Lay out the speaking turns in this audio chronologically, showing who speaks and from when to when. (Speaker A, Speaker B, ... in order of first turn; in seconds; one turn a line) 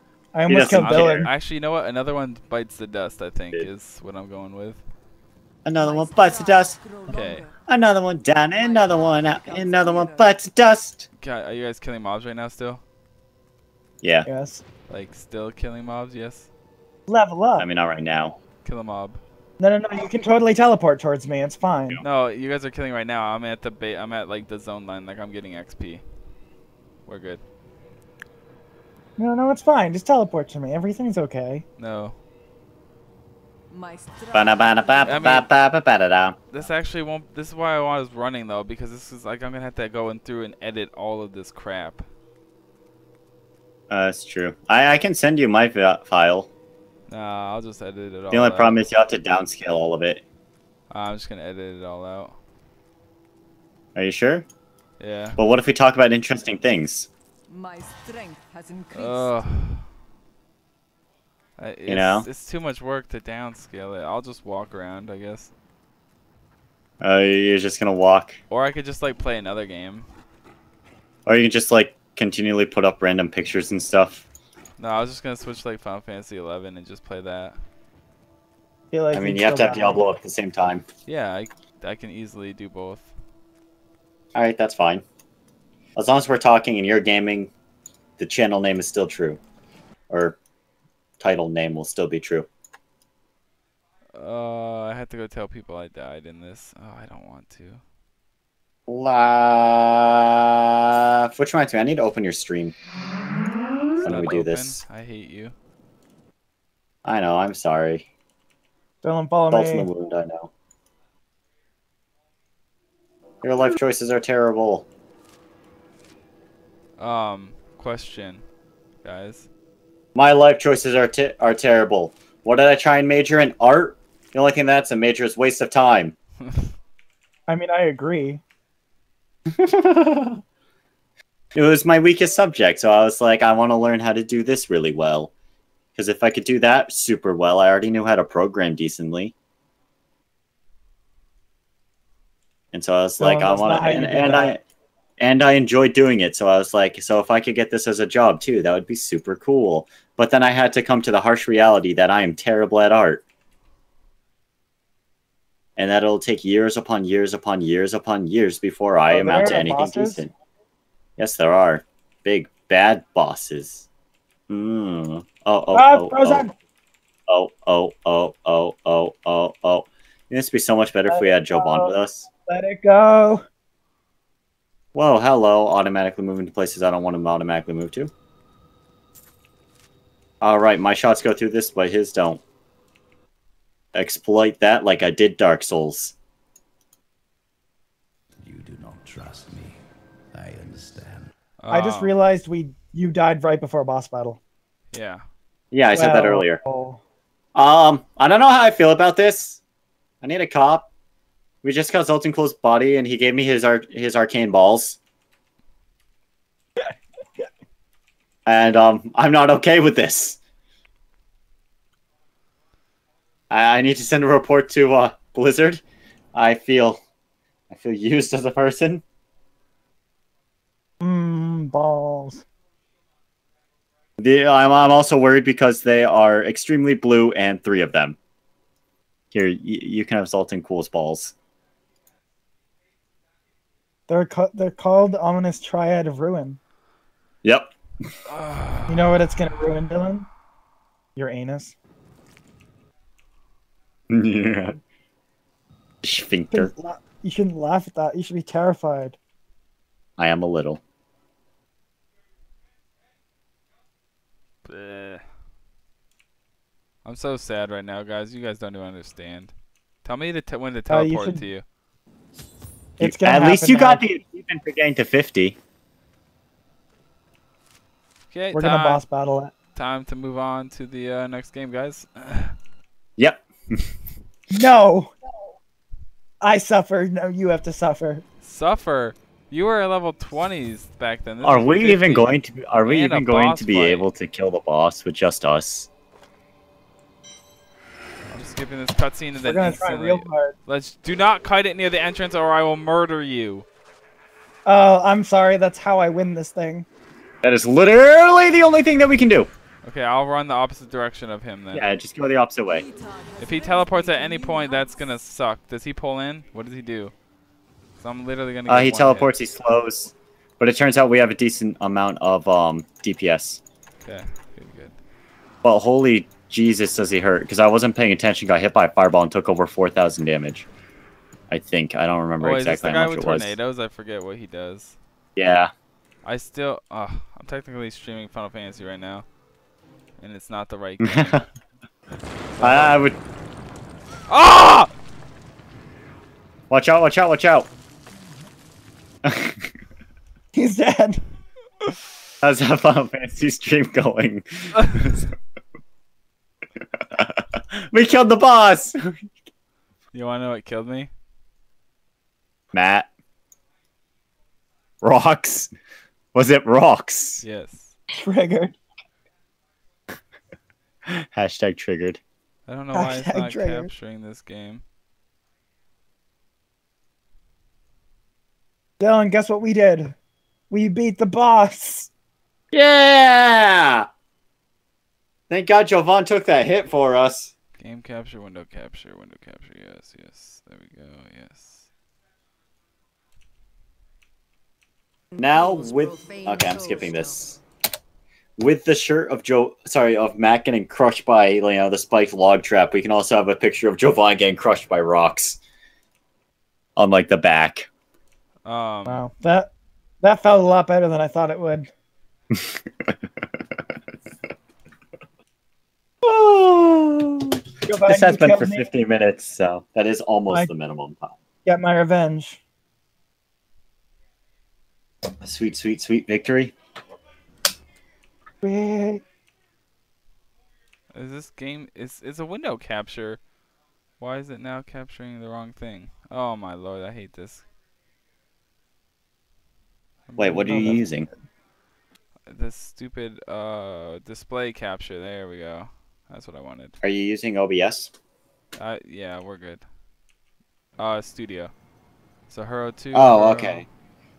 Speaker A: 0.3-1.3
Speaker B: 0.5-1.3
Speaker C: 0.7-4.8
Speaker B: 5.7-6.8
Speaker D: 5.8-7.6
Speaker C: 7.1-7.5
Speaker B: 7.7-11.1
Speaker D: 8.5-10.3
Speaker C: 11.2-12.8
Speaker B: 14.0-14.3
Speaker A: 14.3-14.6
Speaker C: 14.9-16.5
Speaker A: 17.1-17.7
Speaker B: 17.6-18.4
Speaker C: 18.6-19.2
Speaker A: 19.6-22.0
Speaker C: 22.0-26.0
Speaker C: 27.1-27.4
Speaker A: 29.2-31.6
Speaker C: 31.8-32.2
Speaker D: 33.7-35.4
Speaker B: 34.3-36.4
Speaker C: 35.0-35.5
Speaker C: 36.5-42.1
Speaker B: 43.9-46.5
Speaker C: 47.1-48.8
Speaker B: 48.3-50.2
Speaker C: 50.9-52.4
Speaker B: 54.0-54.5
Speaker C: 55.0-55.4
Speaker B: 55.4-57.1
Speaker D: 57.5-59.5
Speaker C: 58.9-59.9
Speaker C: 61.6-65.5
Speaker B: 61.9-62.3
Speaker B: 67.0-68.4
Speaker C: 68.5-70.1
Speaker B: 71.3-74.2
Speaker C: 74.8-77.6
Speaker A: 78.9-80.0
Speaker B: 79.1-80.8
Speaker C: 81.1-83.1
Speaker B: 84.3-85.0
Speaker B: 86.0-87.5
Speaker B: 88.2-89.4
Speaker B: 90.1-90.4
Speaker B: 91.2-92.5
Speaker C: 94.1-97.8
Speaker B: 98.9-102.7
Speaker B: 104.0-104.8
Speaker C: 104.0-105.5
Speaker B: 107.0-108.1
Speaker A: 109.0-109.9
Speaker B: 109.5-110.5
Speaker B: 113.4-114.9
Speaker C: 117.0-118.4
Speaker C: 119.0-119.5
Speaker B: 120.2-126.2
Speaker C: 126.4-126.7
Speaker A: 127.5-128.4
Speaker B: 129.5-130.4
Speaker B: 131.6-135.3
Speaker B: 135.9-139.3
Speaker B: 142.7-144.6
Speaker A: 143.2-144.5
Speaker B: 145.2-153.2
Speaker B: 155.8-160.3
Speaker A: 159.1-160.2
Speaker B: 161.2-163.9
Speaker B: 164.5-166.4
Speaker A: 165.7-166.5
Speaker B: 167.3-172.3
Speaker A: 171.1-171.9
Speaker A: 172.5-173.4
Speaker B: 174.9-178.1
Speaker B: 180.4-182.4
Speaker B: 183.9-186.2
Speaker E: 188.4-191.3
Speaker C: 191.6-192.2
Speaker A: 191.7-194.4
Speaker C: 194.9-195.2
Speaker B: 195.7-196.6
Speaker A: 195.9-197.0
Speaker B: 197.6-199.6
Speaker B: 200.2-200.9
Speaker B: 201.6-205.0
Speaker B: 208.5-210.4
Speaker B: 213.5-215.8
Speaker B: 216.3-217.0
Speaker B: 217.7-219.0
Speaker A: 221.0-222.4
Speaker B: 224.2-228.2
Speaker B: 229.3-231.3
Speaker A: 234.1-236.6
Speaker B: 237.4-238.1
Speaker C: 238.3-239.0
Speaker A: 238.9-240.3
Speaker A: 241.2-241.8
Speaker B: 244.1-244.8
Speaker B: 246.0-246.7
Speaker A: 246.5-249.2
Speaker B: 250.2-250.8
Speaker C: 254.7-255.2
Speaker C: 257.1-259.5
Speaker C: 260.0-261.6
Speaker A: 260.9-261.4
Speaker A: 263.0-264.0
Speaker B: 263.0-265.6
Speaker C: 268.3-269.0
Speaker A: 268.5-269.5
Speaker C: 269.8-272.5
Speaker B: 273.2-273.9
Speaker A: 274.5-275.1
Speaker A: 276.4-278.2
Speaker C: 278.4-284.1
Speaker B: 281.4-285.9
Speaker C: 288.3-293.7
Speaker A: 289.4-290.6
Speaker A: 294.7-296.9
Speaker B: 297.4-299.5
Speaker C: 299.8-301.9
Speaker B: 301.7-302.9
Speaker D: 302.7-305.1
Speaker C: 303.4-307.1
Speaker C: 308.0-309.3
Speaker B: 308.7-313.6
Speaker C: 314.0-315.0
Speaker B: 315.6-320.7
Speaker B: 321.5-323.6
Speaker C: 322.4-325.0
Speaker B: 325.4-325.7
Speaker C: 326.2-329.3
Speaker C: 330.2-331.4
Speaker B: 331.0-331.5
Speaker C: 332.6-333.1
Speaker B: 332.6-333.2
Speaker C: 334.3-334.9
Speaker B: 336.7-337.7
Speaker B: 339.2-339.7
Speaker A: 340.5-341.2
Speaker B: 342.4-345.3
Speaker B: 347.0-349.3
Speaker C: 350.1-351.1
Speaker B: 352.7-353.1
Speaker B: 355.0-355.7
Speaker B: 356.3-357.4
Speaker C: 357.4-357.9
Speaker A: 358.1-358.8
Speaker B: 361.1-362.2
Speaker C: 362.7-364.8
Speaker A: 362.9-363.9
Speaker A: 369.0-370.1
Speaker A: 370.7-372.1
Speaker B: 372.7-374.1
Speaker B: 375.5-377.5
Speaker C: 377.8-381.9
Speaker D: 385.3-387.6
Speaker B: 385.4-387.6
Speaker B: 388.6-395.6
Speaker B: 397.0-397.9
Speaker C: 398.7-399.3
Speaker A: 399.1-401.9
Speaker B: 402.5-403.1
Speaker B: 406.2-411.4
Speaker A: 407.9-408.9
Speaker A: 411.6-412.6
Speaker B: 415.4-416.7
Speaker A: 418.6-419.2
Speaker C: 421.1-423.4
Speaker C: 424.2-427.6
Speaker C: 430.3-431.0
Speaker B: 430.4-431.3
Speaker A: 430.7-431.1
Speaker C: 432.5-437.0
Speaker B: 437.0-438.1
Speaker C: 438.8-439.9
Speaker C: 441.0-441.7
Speaker C: 442.5-443.9
Speaker B: 443.1-443.9